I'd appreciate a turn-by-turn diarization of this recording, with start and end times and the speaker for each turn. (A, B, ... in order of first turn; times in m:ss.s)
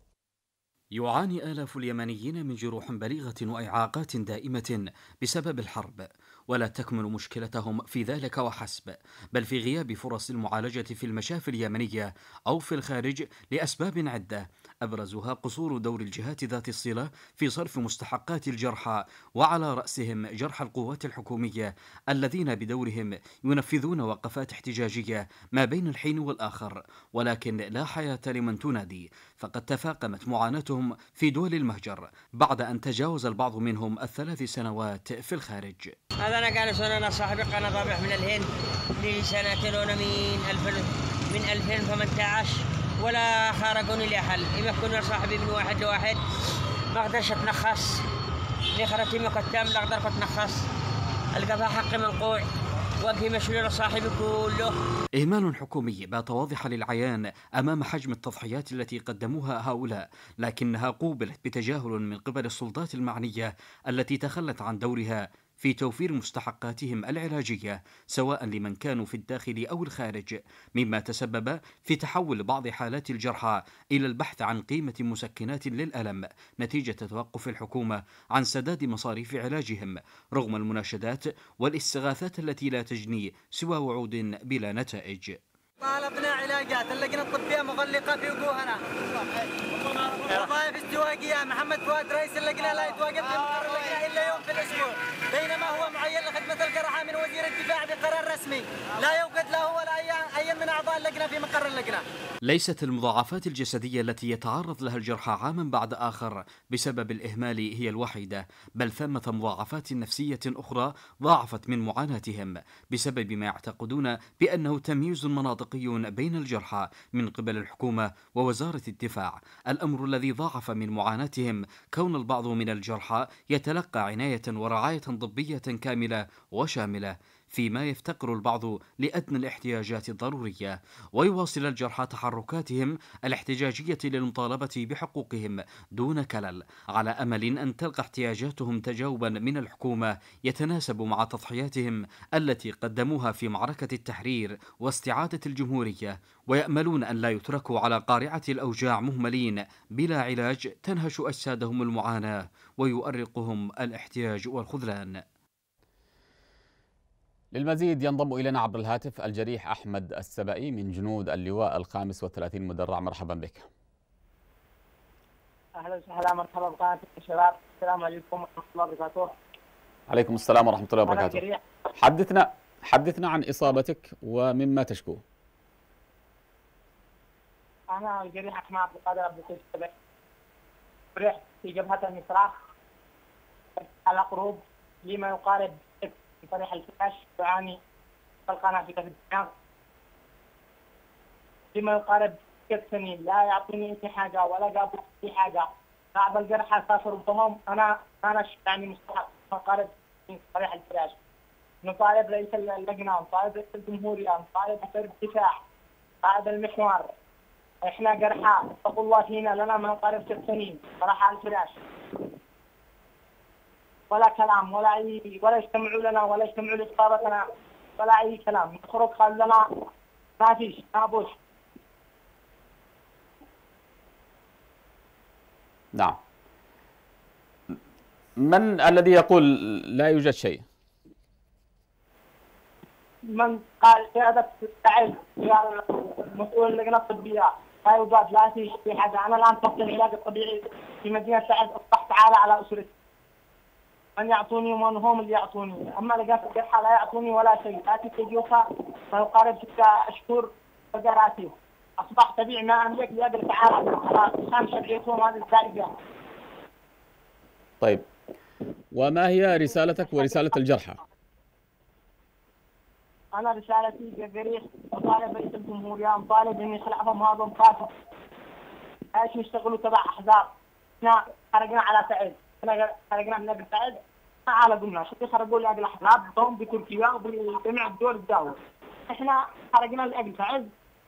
0:00.9-0:36.0 A
0:36.2-0:38.5 B
0:39.0-0:46.2 B
0:46.9-0:48.0 B
0:48.7-0:50.6 B
0:51.3-0:52.4 B
0:53.0-0:54.7 B
0:55.1-1:25.4 A
1:25.8-1:28.8 C
1:30.2-1:42.0 C
1:42.4-2:35.2 A
2:37.5-2:43.7 D
2:45.8-2:49.3 E
2:50.1-2:51.4 D
2:51.0-2:51.6 E
2:52.0-2:55.2 D
2:57.9-2:59.9 E
3:01.1-3:02.6 E
3:03.8-3:07.8 E
3:08.5-3:09.5 E
3:11.7-3:21.2 E
3:21.8-3:25.6 E
3:26.2-3:27.1 E
3:27.8-3:31.8 E
3:34.1-3:37.5 E
3:38.0-3:39.9 E
3:40.4-3:41.3 E
3:48.4-3:50.6 D
3:53.3-4:02.9 E
4:04.2-4:15.9 E
4:18.9-4:21.0 D
4:23.4-4:27.9 E
4:29.1-4:38.6 E
4:39.1-4:40.7 E